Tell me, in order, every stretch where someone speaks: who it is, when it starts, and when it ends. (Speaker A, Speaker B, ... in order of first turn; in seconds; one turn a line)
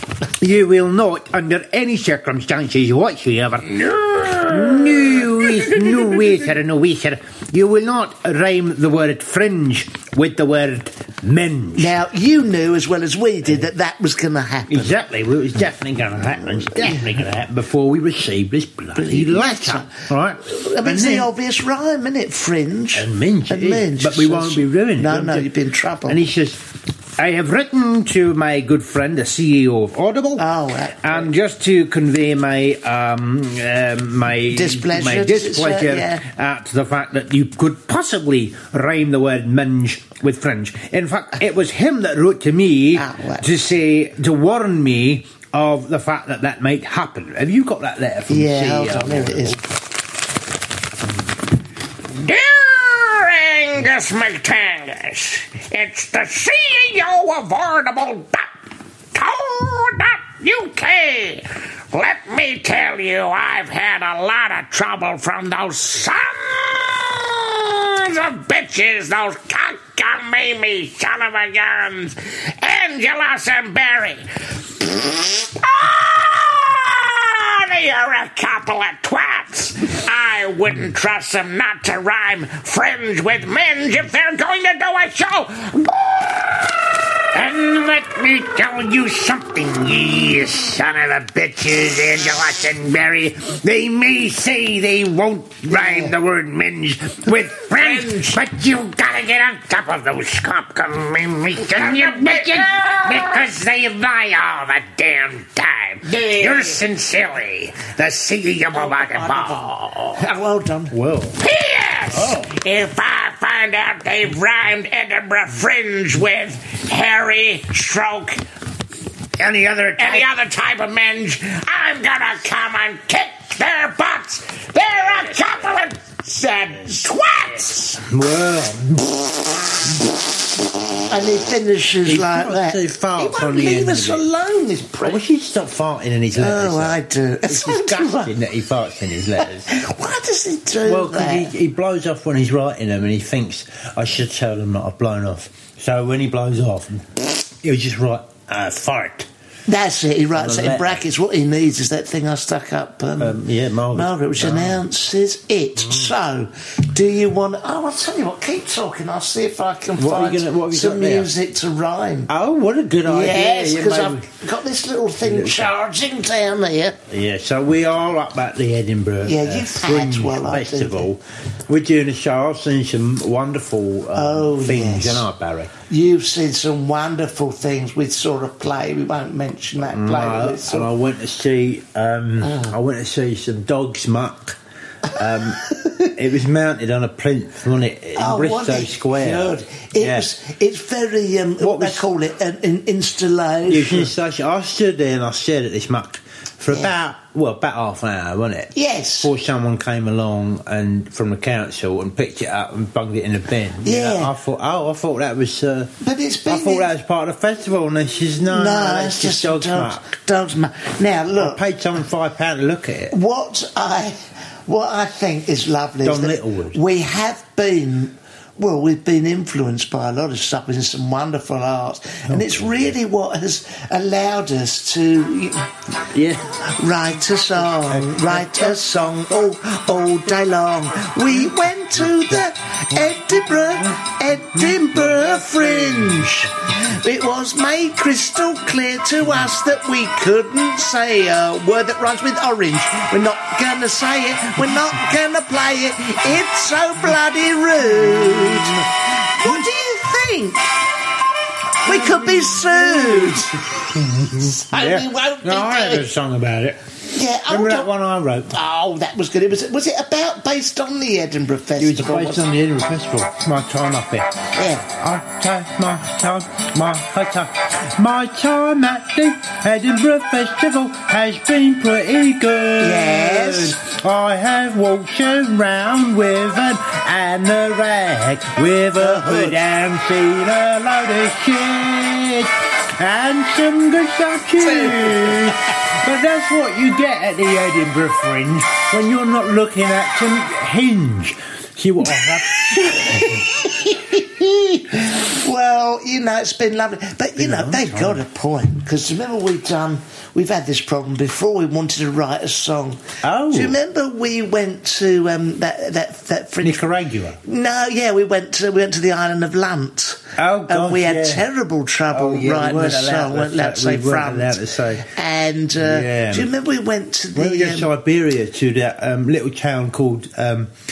Speaker A: 0.2-11.9
Speaker B: 3.9-4.8
Speaker C: 11.8-15.0
Speaker A: 14.7-21.3
Speaker C: 18.9-26.2
Speaker A: 22.9-25.6
Speaker A: 26.1-26.6
Speaker A: 27.2-30.4
Speaker C: 30.4-31.3
Speaker A: 31.0-49.6
Speaker C: 34.5-36.2
Speaker C: 42.9-43.5
Speaker C: 48.3-49.6
Speaker B: 52.2-58.5
Speaker B: 59.1-96.2
Speaker A: 95.7-98.1
Speaker B: 97.4-110.2
Speaker C: 108.8-110.9
Speaker A: 110.9-111.4
Speaker B: 111.4-118.4
Speaker A: 112.1-112.5
Speaker B: 119.4-128.0
Speaker A: 119.4-120.3
Speaker A: 128.1-130.0
Speaker C: 131.1-135.2
Speaker A: 132.0-134.3
Speaker A: 135.0-139.7
Speaker C: 136.4-138.3
Speaker C: 139.7-141.5
Speaker A: 140.8-149.3
Speaker C: 149.7-153.4
Speaker A: 150.3-151.0
Speaker A: 153.2-154.8
Speaker C: 153.9-162.3
Speaker A: 159.9-161.3
Speaker A: 162.3-164.3
Speaker C: 163.1-167.0
Speaker A: 165.2-165.7
Speaker A: 167.1-175.7
Speaker C: 169.2-171.1
Speaker C: 174.1-175.3
Speaker C: 175.9-180.9
Speaker A: 179.8-184.6
Speaker C: 182.4-182.8
Speaker A: 185.1-190.3
Speaker C: 188.2-194.1
Speaker A: 191.6-192.1
Speaker A: 193.7-205.9
Speaker C: 198.7-199.3
Speaker C: 203.8-204.3
Speaker C: 206.0-206.9
Speaker A: 206.5-210.1
Speaker C: 208.5-211.6
Speaker A: 211.3-213.1
Speaker C: 213.1-225.7
Speaker A: 216.0-216.8
Speaker A: 222.3-222.9
Speaker A: 226.1-226.6
Speaker C: 226.6-250.8
Speaker A: 227.7-229.1
Speaker A: 232.1-232.4
Speaker A: 232.9-236.5
Speaker A: 247.8-248.9
Speaker A: 249.4-249.7
Speaker C: 251.8-253.6
Speaker A: 251.8-256.8
Speaker C: 254.4-256.1
Speaker C: 257.1-257.9
Speaker A: 257.5-258.6
Speaker C: 258.5-262.4
Speaker A: 261.8-264.4
Speaker C: 264.6-264.9
Speaker A: 264.9-295.0
Speaker C: 272.8-273.8
Speaker C: 279.0-279.6
Speaker C: 284.6-285.6
Speaker C: 292.1-293.7
Speaker C: 294.9-306.8
Speaker A: 297.4-298.2
Speaker A: 303.2-303.8
Speaker A: 306.6-307.4
Speaker C: 307.4-317.9
Speaker A: 310.4-311.4
Speaker A: 312.1-315.1
Speaker A: 315.8-316.5
Speaker A: 317.4-320.7